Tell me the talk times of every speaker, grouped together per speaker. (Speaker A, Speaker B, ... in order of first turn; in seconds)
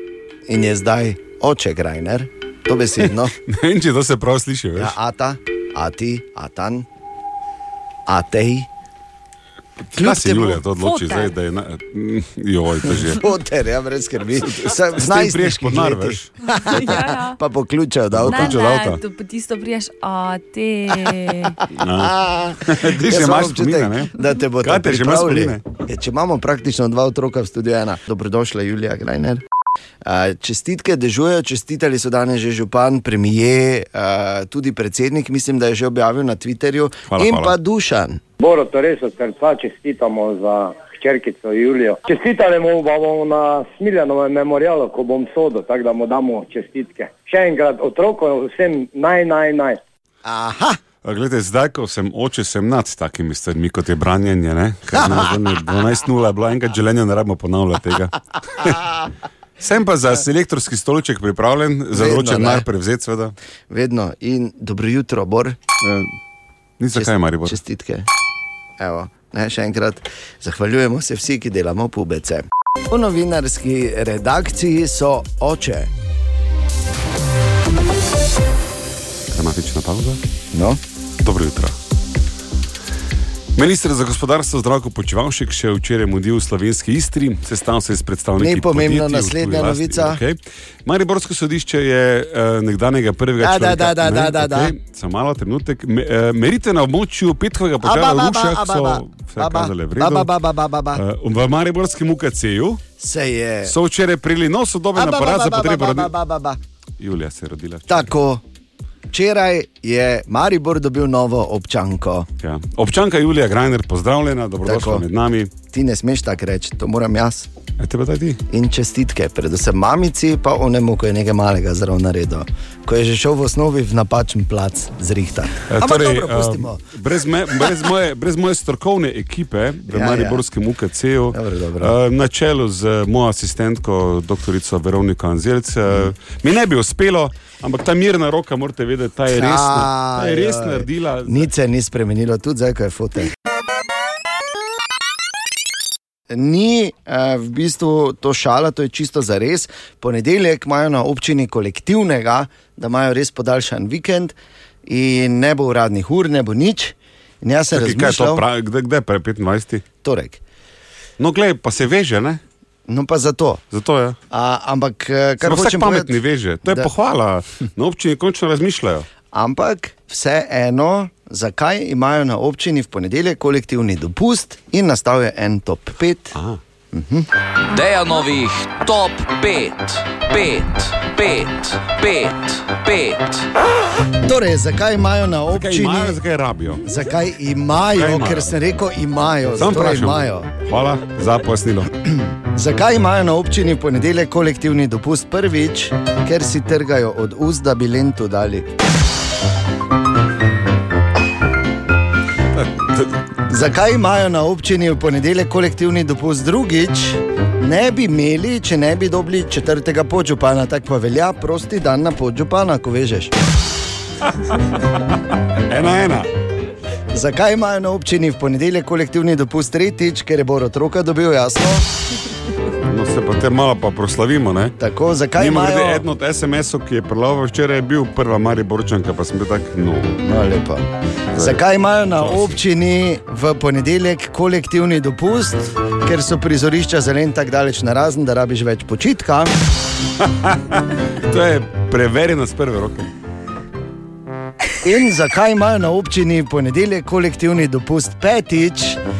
Speaker A: 0.5-3.3, 4.8-6.8, 8.1-8.7, 9.9-10.6, 12.9-18.6, 21.9-29.4, 30.0-38.2, 50.2-50.8, 55.0-55.3, 61.9-62.7, 63.7-65.6, 66.9-68.1, 68.8-75.9, 80.5-80.8, 88.4-90.2, 93.4-94.7, 97.8-101.0, 103.0-103.7, 104.9-106.6, 107.9-108.4, 109.1-112.3, 114.6-115.1, 115.7-117.5, 118.5-126.8, 129.9-130.4, 131.3-131.9, 139.3-143.3, 146.3-158.4, 160.0-160.4, 162.9-163.6, 164.3-166.9, 169.3-176.4, 176.9-177.2, 184.2-186.2, 186.8-190.5, 192.5-198.7, 203.5-213.3, 217.1-221.8, 224.8-226.0, 230.2-239.5, 244.8-249.0
Speaker B: 3.0-4.9, 9.9-13.2, 14.4-16.3, 18.2-19.0, 21.8-22.1, 22.6-25.6, 37.1-37.6, 51.0-59.0, 59.6-63.3, 65.8-66.1, 66.8-67.6, 79.3-80.2, 81.2-81.7, 83.5-100.3, 100.9-102.8, 103.7-106.1, 107.0-108.0, 112.4-115.5, 117.8-118.4, 125.7-141.5, 157.7-159.8, 161.2-162.4, 163.7-164.2, 165.4-169.1, 176.3-176.6, 185.5-186.8, 187.9-188.6, 189.6-192.0, 202.6-203.2, 215.7-216.3, 222.8-224.8, 225.4-230.2, 231.3-232.6, 240.2-243.1
Speaker C: 10.7-11.3, 16.5-17.4, 18.2-21.6
Speaker D: 38.4-49.8
Speaker E: 177.7-183.4